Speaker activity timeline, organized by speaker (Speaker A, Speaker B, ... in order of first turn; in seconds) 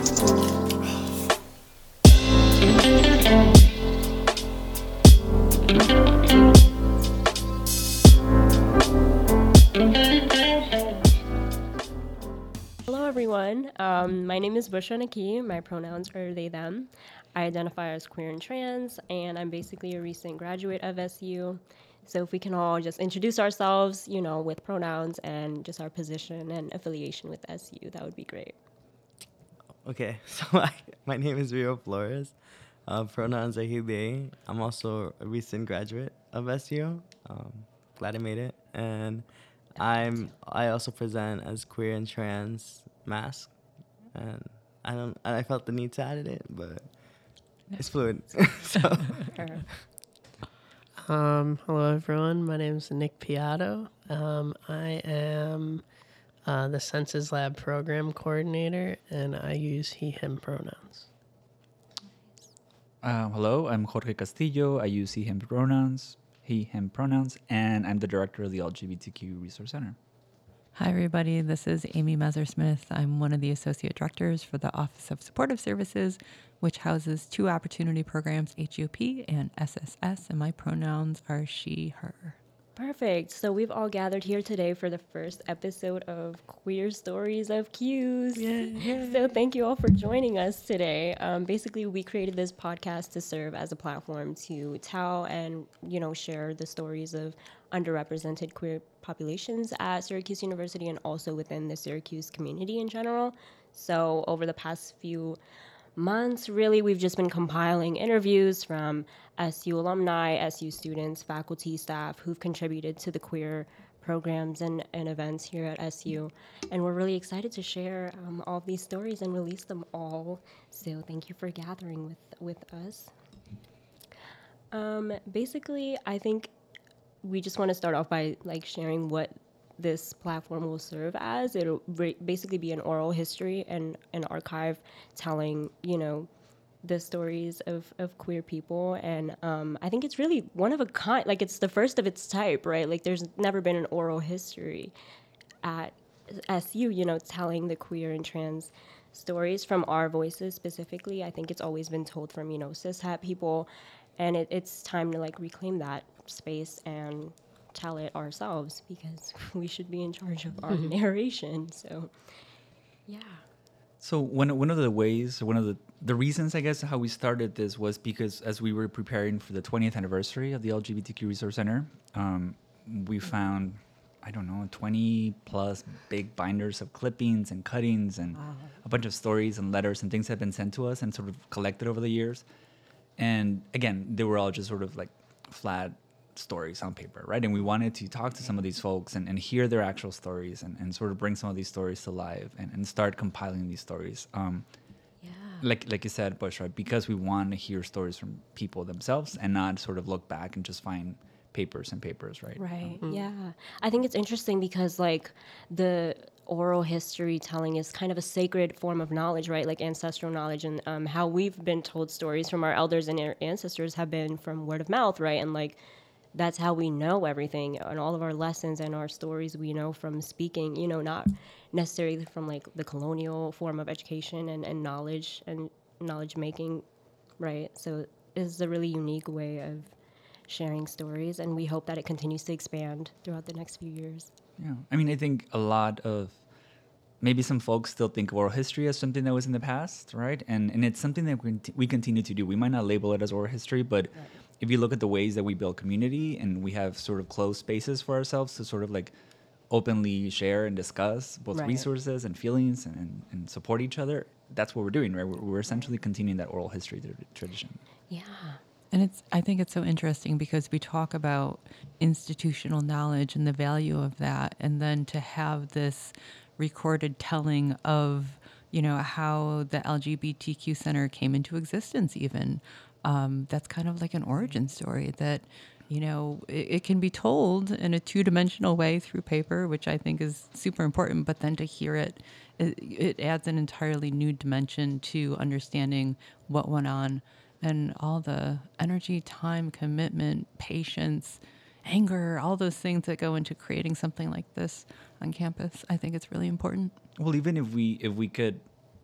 Speaker A: 12.8-28.6, 39.8-40.3, 49.3-49.6, 82.8-105.4, 106.0-123.1, 124.7-126.5, 127.2-136.3, 136.8-144.9, 145.6-162.1, 163.1-163.4, 178.4-178.8, 195.2-195.6, 202.6-215.8, 216.3-226.8, 227.4-229.9, 230.5-234.3, 251.5-251.9, 258.1-258.6
Speaker B: 29.8-32.4, 32.9-47.0, 47.8-49.8
Speaker C: 47.7-48.5, 70.8-82.4, 88.5-89.1, 258.9-296.9
Speaker D: 51.0-55.9, 56.5-61.1, 88.4-89.0
Speaker E: 63.0-70.0, 164.0-182.4, 183.2-194.7, 195.6-203.0, 234.6-236.4, 237.2-249.1, 249.7-257.8, 297.2-298.6